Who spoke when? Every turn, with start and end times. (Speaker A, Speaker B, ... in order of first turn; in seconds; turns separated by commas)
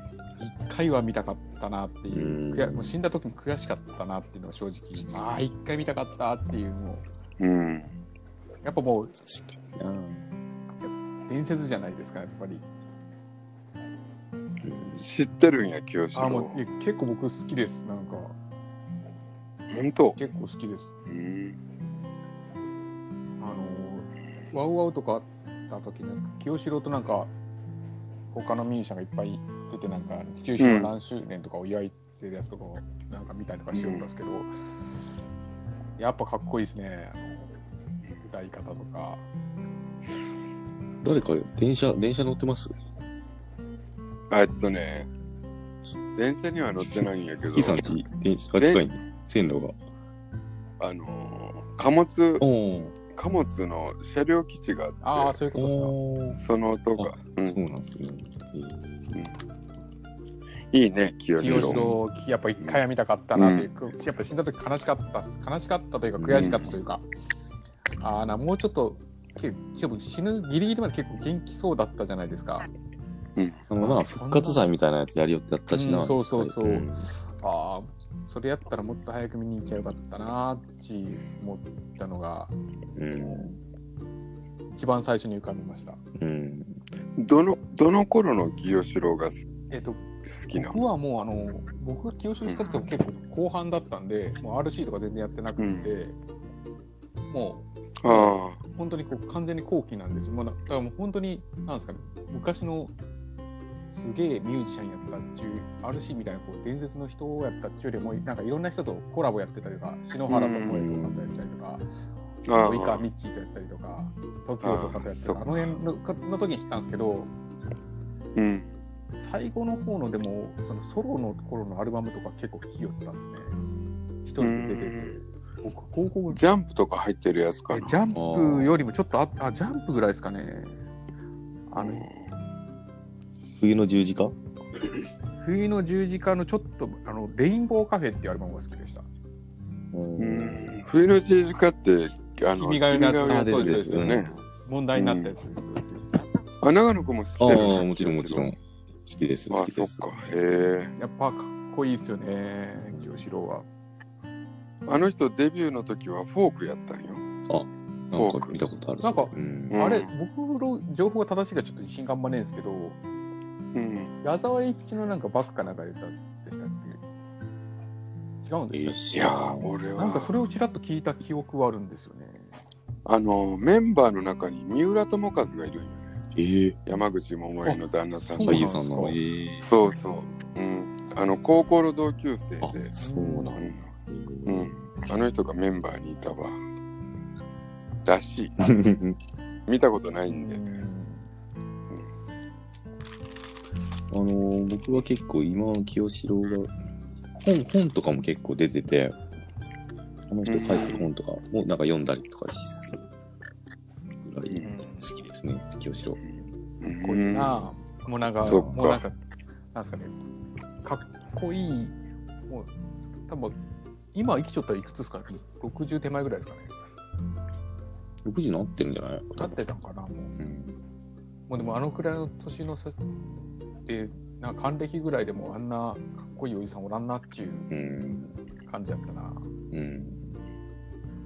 Speaker A: 0.4-7.0, Speaker B: 2.1-3.0, Speaker C: 7.4-7.9, Speaker A: 8.6-9.1, Speaker B: 9.2-10.3, Speaker A: 10.8-12.6, Speaker B: 14.6-15.0, Speaker C: 15.0-16.6, Speaker A: 16.1-18.3, Speaker C: 19.7-20.2, Speaker A: 20.1-20.9, Speaker C: 21.1-21.6, Speaker A: 23.4-27.3, Speaker A: 28.3-35.2, Speaker C: 30.6-30.9, Speaker C: 33.7-34.1, Speaker A: 36.0-37.5, Speaker A: 38.2-39.2, Speaker B: 41.0-42.8, Speaker C: 44.3-45.1, Speaker C: 46.1-48.0, Speaker B: 47.5-49.8, Speaker C: 48.6-48.8, Speaker C: 50.8-52.4, Speaker B: 52.4-53.0, Speaker C: 53.1-55.4, Speaker A: 55.0-55.9, Speaker B: 55.5-56.4, Speaker C: 56.4-57.6, Speaker B: 57.0-59.2, Speaker C: 60.7-62.0, Speaker A: 61.4-67.0, Speaker B: 61.4-61.9, Speaker C: 63.4-63.7, Speaker B: 66.2-66.6, Speaker C: 66.3-66.8, Speaker A: 68.0-72.7, Speaker B: 73.7-77.1, Speaker A: 73.8-74.7, Speaker A: 75.7-82.5, Speaker B: 83.0-83.6, Speaker A: 83.1-83.6, Speaker A: 84.7-86.0, Speaker B: 86.2-86.8, Speaker C: 87.2-89.5, Speaker A: 89.7-96.2, Speaker C: 90.2-90.8, Speaker C: 95.6-95.9, Speaker A: 97.3-102.9, Speaker C: 98.0-98.6, Speaker A: 103.9-111.9, Speaker C: 110.3-110.8, Speaker B: 110.7-111.4, Speaker C: 112.5-113.0, Speaker A: 112.5-117.3, Speaker C: 114.6-115.8, Speaker C: 118.3-118.7, Speaker A: 119.1-123.6, Speaker A: 124.2-126.4, Speaker C: 124.4-125.2, Speaker C: 126.3-128.0, Speaker A: 127.7-130.8, Speaker B: 128.1-128.7, Speaker A: 131.7-132.1, Speaker C: 131.7-132.2, Speaker B: 133.6-134.4, Speaker A: 135.4-139.1, Speaker B: 139.9-140.8, Speaker C: 140.2-144.3, Speaker A: 142.6-146.2, Speaker B: 143.3-144.3, Speaker C: 144.9-145.4, Speaker C: 146.6-148.5, Speaker B: 147.4-150.3, Speaker C: 149.5-150.9, Speaker A: 150.9-153.7, Speaker B: 152.9-153.2, Speaker C: 154.8-157.2, Speaker B: 157.5-159.9, Speaker C: 158.1-158.6, Speaker A: 159.0-163.0, Speaker C: 159.7-160.1, Speaker C: 163.7-164.1, Speaker A: 164.2-167.0, Speaker A: 168.4-169.0, Speaker B: 168.7-169.7, Speaker C: 169.1-170.4, Speaker A: 170.0-172.5, Speaker C: 173.1-176.2, Speaker B: 176.3-176.8, Speaker C: 176.8-179.1, Speaker A: 177.6-179.1, Speaker B: 178.4-179.7, Speaker C: 179.6-182.9, Speaker B: 182.6-185.0, Speaker A: 183.0-183.6, Speaker C: 183.5-183.9, Speaker C: 184.4-186.6, Speaker C: 188.0-188.6, Speaker B: 188.6-189.2, Speaker C: 189.7-190.6, Speaker A: 190.3-191.3, Speaker B: 194.1-196.7, Speaker B: 197.3-199.2, Speaker B: 200.3-203.1, Speaker C: 200.4-201.1, Speaker B: 204.2-206.2, Speaker A: 204.6-205.1, Speaker C: 206.8-207.7, Speaker A: 206.9-209.2, Speaker C: 208.4-209.0, Speaker B: 208.4-208.7, Speaker A: 209.7-210.2, Speaker A: 210.8-212.0, Speaker A: 213.3-213.6, Speaker A: 214.1-216.7, Speaker B: 218.2-219.6, Speaker A: 219.4-220.3, Speaker B: 220.3-220.8, Speaker A: 221.5-223.0, Speaker A: 223.8-227.7, Speaker B: 227.7-228.3, Speaker A: 228.7-229.5, Speaker B: 229.7-230.4